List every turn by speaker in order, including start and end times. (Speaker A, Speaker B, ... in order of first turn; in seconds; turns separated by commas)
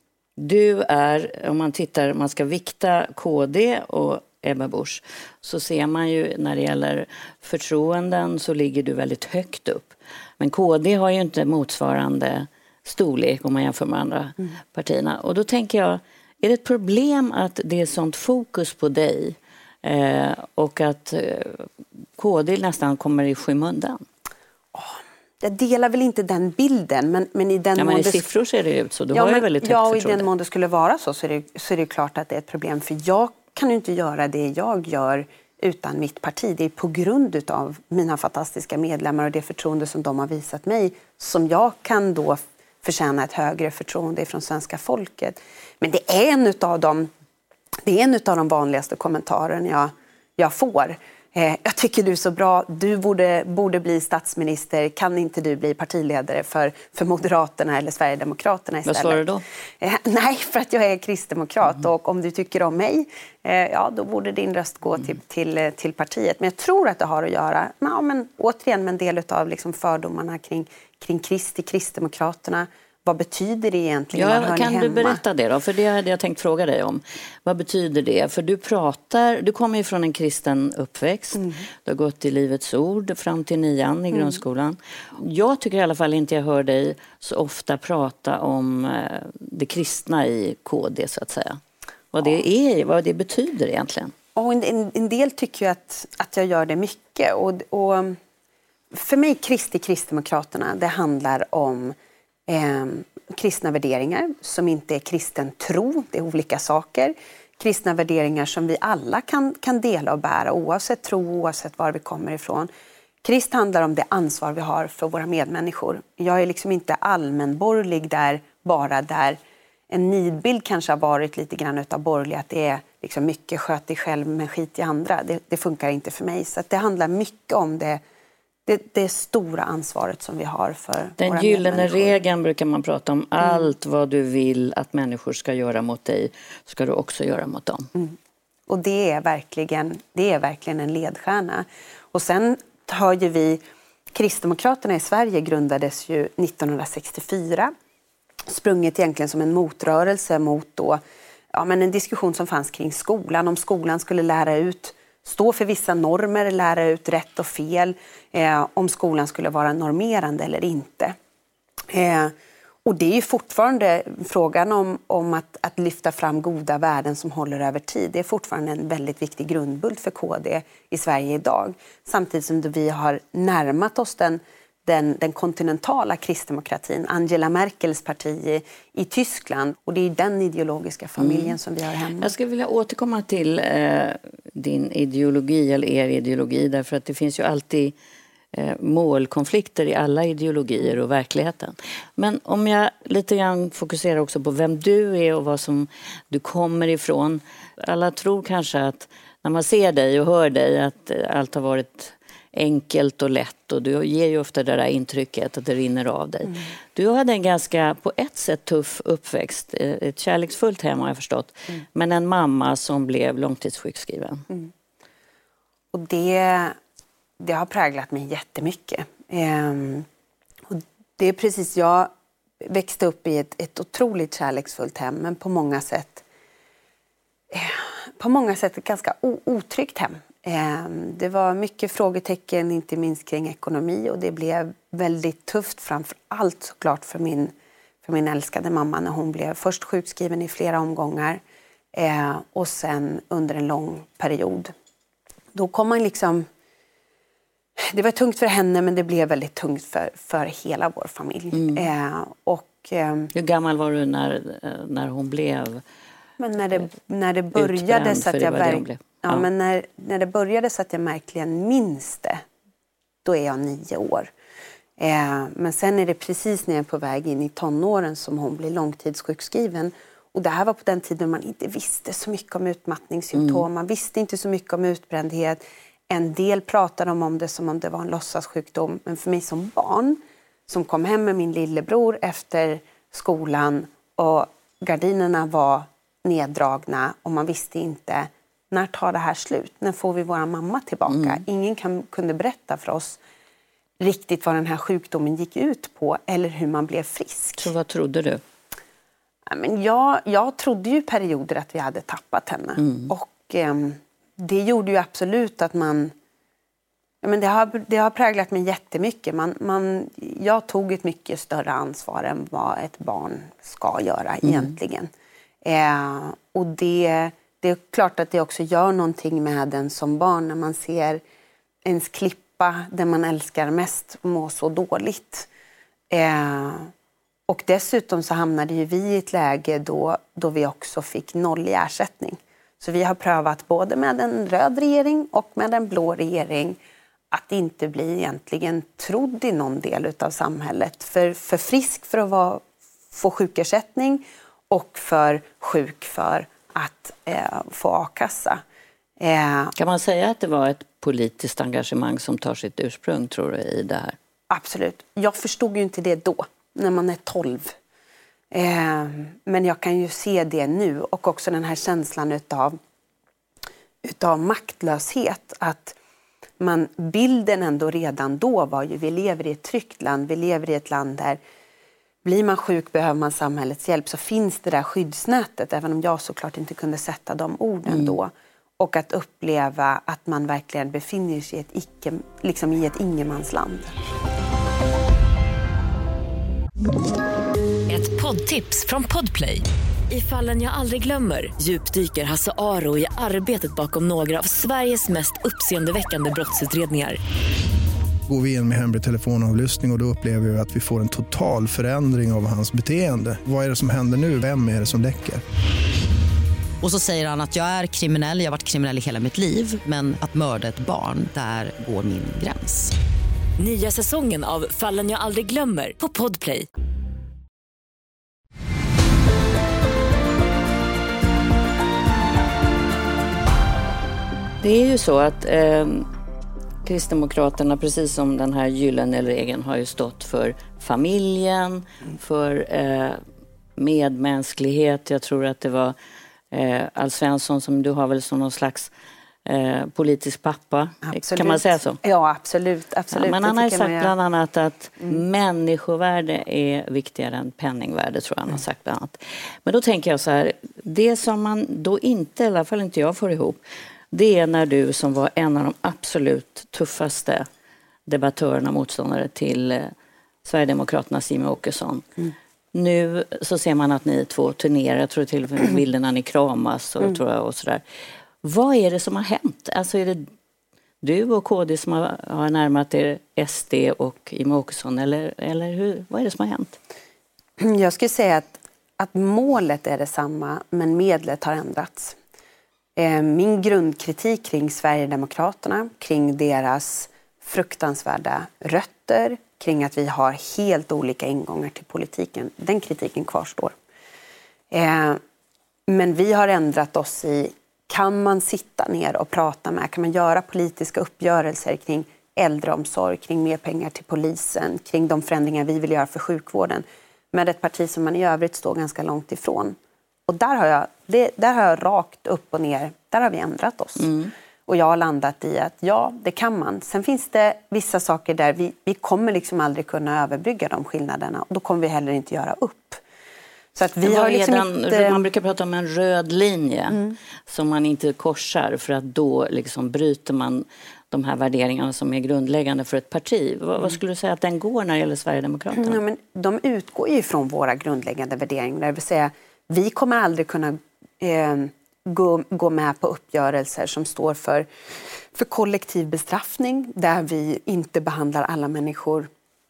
Speaker A: 0.4-24.0, Speaker B: 24.7-28.3, Speaker A: 27.8-30.3, Speaker B: 29.1-47.1, Speaker B: 47.8-59.2, Speaker A: 58.9-59.4, Speaker B: 59.8-75.2, Speaker A: 74.1-91.6, Speaker B: 81.3-81.6, Speaker A: 92.1-94.1, Speaker B: 94.3-98.2, Speaker B: 98.9-102.0, Speaker B: 102.5-112.7, Speaker B: 113.2-128.0, Speaker B: 128.7-132.2, Speaker A: 131.2-137.9, Speaker B: 133.4-133.7, Speaker B: 138.7-147.7, Speaker B: 148.5-161.2, Speaker B: 161.9-182.3, Speaker A: 181.2-181.6, Speaker A: 182.2-187.9, Speaker A: 188.5-214.5, Speaker B: 215.9-216.8, Speaker B: 217.4-220.1, Speaker B: 220.7-226.2, Speaker B: 227.5-241.4, Speaker B: 241.9-244.7, Speaker B: 245.5-246.5, Speaker B: 247.8-253.3, Speaker A: 251.5-251.9, Speaker A: 253.3-255.8, Speaker B: 256.4-262.4, Speaker A: 257.5-259.5, Speaker B: 263.2-264.3, Speaker B: 265.0-293.2, Speaker A: 273.3-273.6, Speaker A: 291.1-291.4, Speaker B: 294.0-297.7, Speaker A: 297.6-298.4, Speaker B: 299.5-306.1, Speaker A: 302.8-303.1, Speaker B: 307.2-315.1, Speaker A: 314.4-314.7, Speaker B: 315.6-321.2, Speaker B: 321.8-325.5, Speaker B: 326.1-326.9, Speaker B: 327.5-336.8, Speaker B: 337.3-348.6, Speaker B: 349.2-349.7, Speaker A: 349.8-354.2, Speaker B: 354.5-357.8, Speaker B: 358.5-362.8, Speaker B: 364.0-366.0, Speaker B: 366.6-371.4, Speaker B: 372.2-383.9, Speaker A: 377.9-378.1, Speaker C: 387.9-397.2, Speaker D: 398.3-405.4, Speaker E: 406.8-412.9, Speaker C: 413.6-416.7, Speaker A: 424.6-426.1, Speaker A: 426.9-433.2, Speaker A: 433.8-435.9, Speaker A: 436.5-438.9, Speaker A: 439.5-442.0, Speaker B: 441.0-444.1, Speaker A: 443.1-453.6, Speaker A: 454.1-457.5, Speaker A: 458.1-459.9, Speaker A: 460.4-462.1, Speaker A: 462.7-467.8, Speaker A: 468.4-470.3, Speaker A: 471.0-476.8, Speaker B: 477.6-482.2, Speaker B: 483.0-493.8, Speaker B: 494.7-495.2, Speaker B: 495.9-514.1, Speaker A: 514.0-514.3, Speaker B: 514.7-523.0, Speaker B: 523.8-525.2, Speaker A: 524.0-536.0, Speaker B: 526.9-527.2, Speaker B: 535.7-544.7, Speaker B: 545.3-549.3